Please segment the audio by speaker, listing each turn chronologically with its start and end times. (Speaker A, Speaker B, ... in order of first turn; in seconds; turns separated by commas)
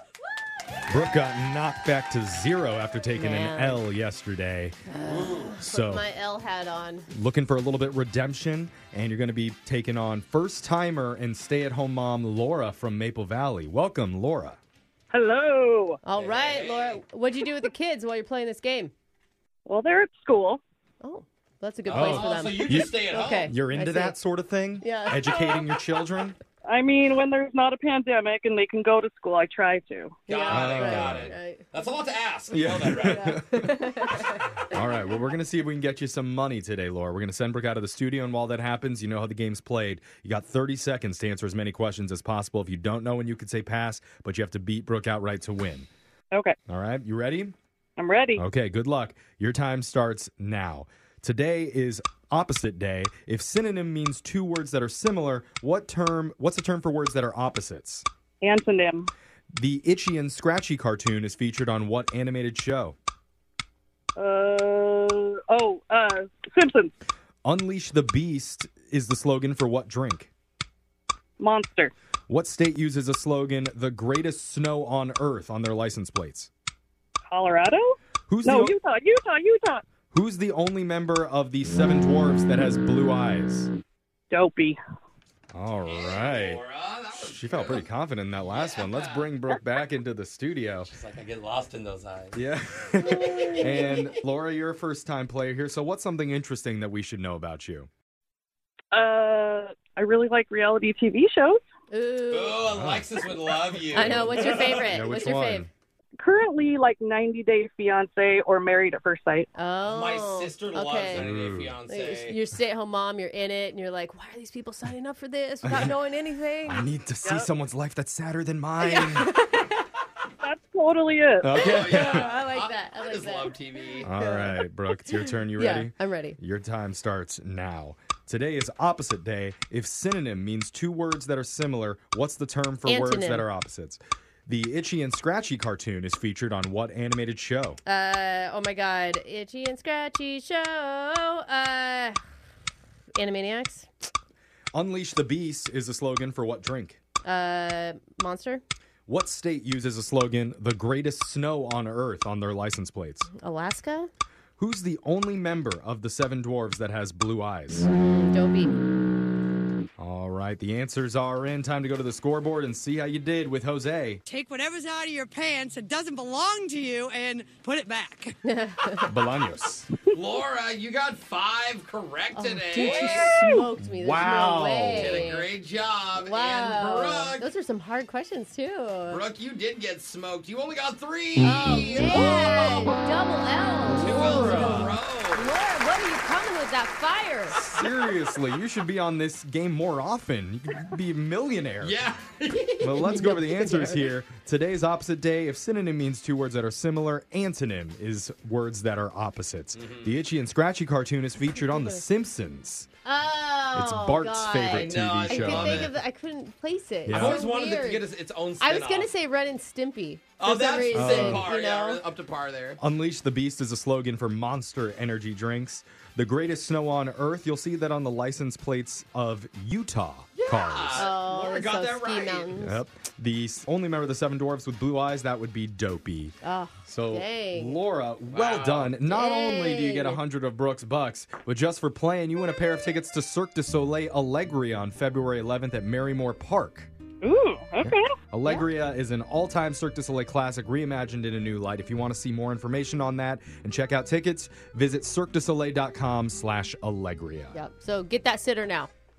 Speaker A: 0.9-4.8, Speaker B: 3.1-3.9, Speaker B: 4.9-7.1, Speaker C: 5.1-5.5, Speaker A: 5.6-6.0, Speaker A: 7.1-14.6, Speaker D: 15.1-16.0, Speaker B: 16.1-18.9, Speaker C: 16.1-17.0, Speaker D: 19.7-20.6, Speaker B: 21.0-24.2, Speaker C: 21.9-23.5, Speaker A: 21.9-26.4, Speaker B: 24.8-25.7, Speaker D: 26.7-30.2, Speaker C: 30.3-33.3, Speaker B: 30.3-31.6, Speaker A: 30.5-31.4, Speaker A: 32.5-45.9, Speaker B: 33.0-35.0, Speaker A: 46.7-47.5, Speaker D: 48.0-48.4, Speaker A: 48.4-58.1, Speaker D: 58.4-59.1, Speaker A: 59.5-63.0, Speaker D: 64.2-66.9, Speaker A: 67.5-70.3, Speaker D: 71.4-71.9, Speaker A: 72.3-76.5, Speaker D: 77.3-79.8, Speaker A: 78.3-78.8, Speaker A: 80.1-83.7, Speaker D: 84.3-84.8, Speaker A: 85.5-86.6, Speaker C: 85.9-87.9, Speaker A: 87.2-90.9, Speaker C: 88.5-89.2, Speaker C: 90.8-92.4, Speaker A: 92.3-97.9, Speaker B: 93.1-93.9, Speaker D: 98.9-101.6, Speaker B: 101.9-102.7, Speaker C: 102.3-104.8, Speaker A: 102.7-103.1, Speaker B: 103.9-105.7, Speaker A: 104.0-105.7, Speaker D: 106.2-109.5, Speaker B: 109.5-111.3, Speaker C: 109.8-112.4, Speaker A: 111.1-111.8, Speaker B: 111.9-116.8, Speaker A: 115.6-116.0, Speaker A: 116.7-119.3, Speaker D: 117.2-117.5, Speaker B: 118.8-119.9, Speaker D: 120.4-121.5, Speaker A: 121.4-122.3, Speaker C: 121.5-124.1, Speaker B: 121.5-126.4, Speaker A: 124.0-137.8, Speaker B: 132.9-133.5, Speaker B: 137.9-142.2, Speaker B: 143.2-143.9, Speaker A: 144.7-147.0, Speaker B: 147.2-148.6, Speaker A: 149.1-153.3, Speaker B: 153.3-154.1, Speaker A: 154.6-157.9, Speaker B: 157.9-158.8, Speaker A: 160.0-164.2, Speaker E: 164.3-168.4, Speaker B: 168.4-169.1, Speaker A: 169.1-169.9, Speaker C: 170.1-173.4, Speaker B: 172.3-175.5, Speaker D: 172.8-173.7, Speaker A: 173.8-175.3, Speaker C: 174.9-177.5, Speaker B: 176.2-179.2, Speaker C: 179.1-182.3, Speaker B: 181.4-187.7, Speaker A: 183.8-185.0, Speaker C: 183.8-185.6, Speaker A: 187.5-192.0, Speaker C: 191.8-192.9, Speaker A: 192.8-202.9, Speaker B: 192.9-194.1, Speaker C: 199.8-200.1, Speaker B: 201.7-202.0, Speaker B: 203.1-212.0, Speaker A: 203.7-205.9, Speaker C: 204.6-205.9, Speaker A: 207.1-207.4, Speaker C: 207.1-209.1, Speaker C: 210.4-212.8, Speaker A: 210.9-211.5, Speaker A: 212.8-221.1, Speaker C: 220.4-222.5, Speaker B: 220.9-222.8, Speaker A: 222.6-226.3, Speaker B: 226.4-227.8, Speaker A: 226.9-236.9, Speaker C: 228.3-228.9, Speaker B: 229.1-230.2, Speaker D: 237.2-238.1, Speaker A: 237.8-247.6, Speaker B: 247.5-248.9